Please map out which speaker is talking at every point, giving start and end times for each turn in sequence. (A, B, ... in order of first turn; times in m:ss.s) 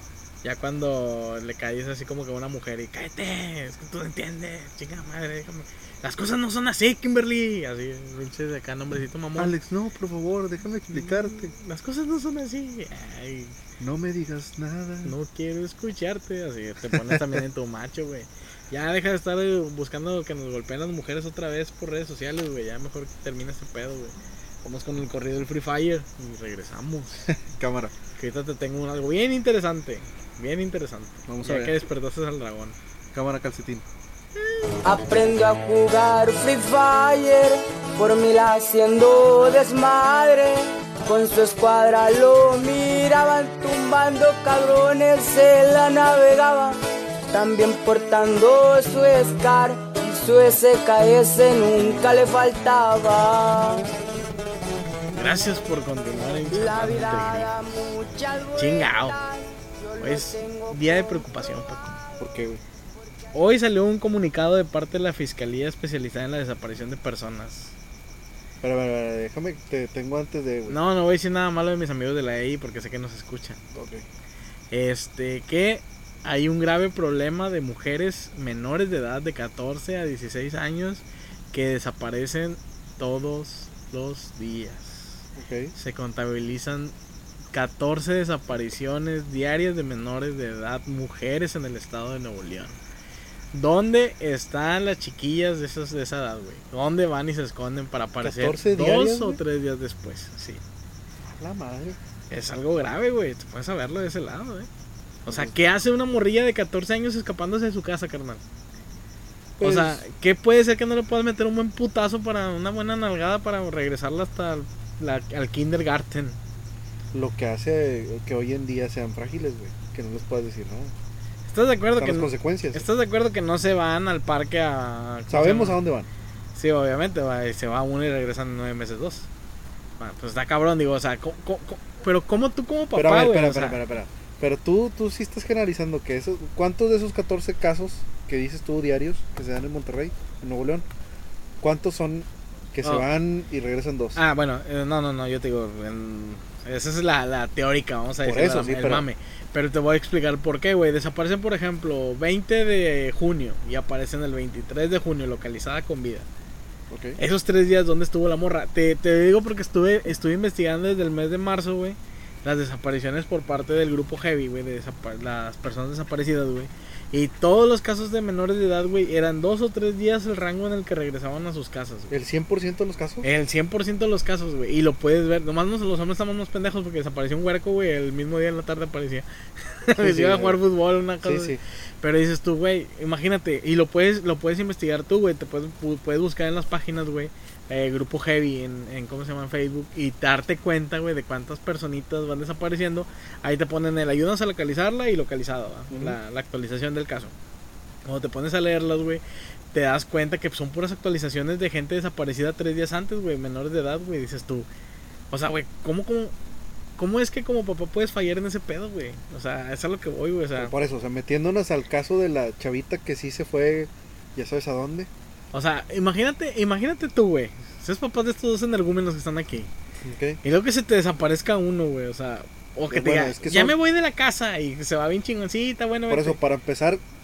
0:00.4-0:09.5 A
0:09.4-0:11.5 B
0:10.9-0:13.6 A
0:13.8-0:15.2 B
0:15.0-0:27.3 A
0:16.9-0:17.4 B
0:27.3-0:27.9 B
0:28.2-0:32.8 A
0:31.3-0:31.7 B
0:33.1-0:33.8 B
0:34.8-0:46.8 C
0:47.3-0:53.9 C
0:55.1-0:57.9 A
0:56.4-1:01.9 C
0:58.6-0:59.2 A
1:00.0-1:02.0 A
1:02.2-1:02.6 B
1:03.3-1:07.8 A
1:08.6-1:10.8 B
1:10.7-1:13.6 A
1:13.7-1:14.0 B
1:14.7-1:25.2 A
1:25.4-1:25.7 B
1:25.8-1:26.9 A
1:27.5-1:32.8 A
1:33.5-1:40.6 A
1:38.2-1:39.4 B
1:41.2-1:42.0 B
1:42.3-1:44.7 A
1:45.3-1:45.5 B
1:45.3-1:48.4 A
1:49.6-1:50.0 B
1:49.6-1:56.4 A
1:57.1-2:00.9 B
2:01.5-2:05.8 A
2:02.0-2:02.8 B
2:05.3-2:06.1 B
2:06.6-2:09.3 A
2:10.0-2:13.8 A
2:12.9-2:20.9 B
2:21.6-2:24.2 B
2:24.2-2:36.3 A
2:28.2-2:29.1 B
2:36.9-2:37.2 B
2:37.2-2:52.2 A
2:52.1-2:53.3 B
2:53.2-3:17.3 A
3:00.0-3:00.6 B
3:01.2-3:01.6 B
3:15.9-3:16.2 B
3:18.0-3:19.2 A
3:19.7-3:24.7 A
3:25.3-3:26.3 A
3:27.0-3:30.7 A
3:30.6-3:35.1 B
3:35.5-3:39.7 A
3:40.0-3:40.4 B
3:40.4-3:46.4 A
3:42.9-3:43.8 B
3:46.1-3:47.0 B